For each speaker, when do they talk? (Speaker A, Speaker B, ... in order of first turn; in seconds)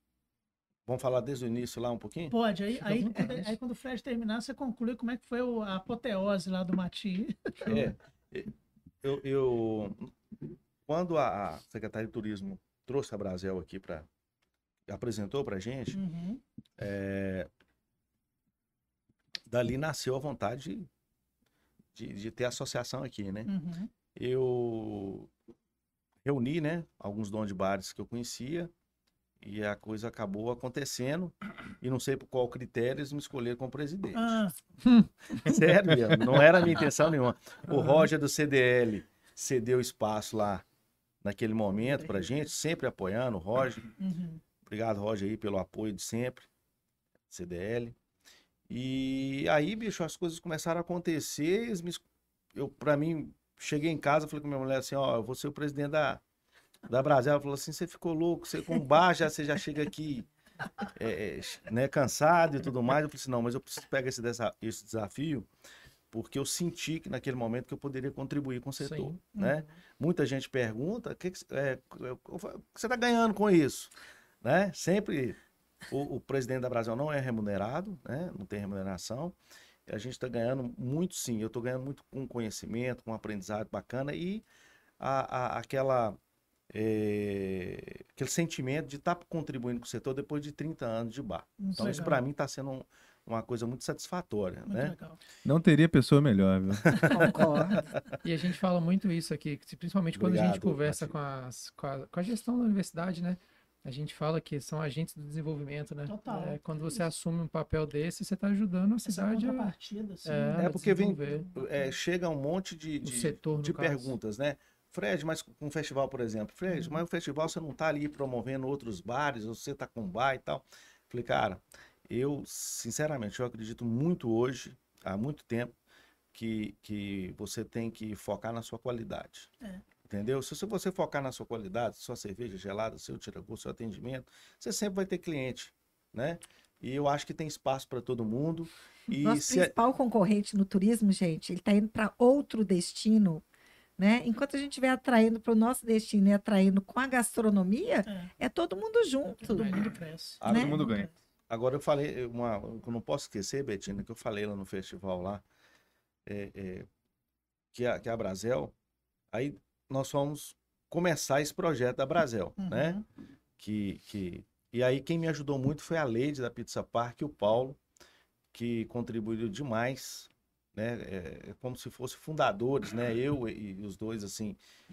Speaker A: 0.8-2.3, 7.6-10.1, 10.8-14.1, 14.9-16.0, 16.8-17.5, 19.5-20.9, 21.9-23.5, 24.1-25.3, 26.2-28.7, 29.4-34.4, 35.4-40.6, 41.2-43.9, 44.6-46.5, 47.3-48.0, 48.7-52.0, 52.5-56.2, 56.9-60.3, 60.9-65.5, 66.1-75.4, 75.9-79.3, 79.9-84.4, 85.0-86.2, 86.7-95.0, 96.9-97.2, 100.1-101.1, 110.6-125.7, 126.3-129.5, 130.0-139.7, 150.4-150.9, 151.5-155.4, 156.2-156.9, 157.7-158.7, 159.3-163.0, 163.6-167.8, 168.5-174.6
Speaker B: 2.3-7.9, 15.9-16.4, 23.4-23.9, 34.1-34.5, 37.7-38.1, 44.0-44.4, 69.3-69.7, 91.6-92.2, 94.7-95.2, 106.1-107.1, 109.0-110.8, 148.1-148.3, 149.4-150.4, 162.6-163.0
Speaker C: 2.8-3.5, 68.8-69.2, 98.2-109.7, 110.2-111.5, 113.0-114.2, 149.5-149.9
Speaker D: 95.4-97.2, 150.4-151.1
Speaker E: 97.1-97.9, 139.1-143.4, 144.0-149.8, 150.4-150.9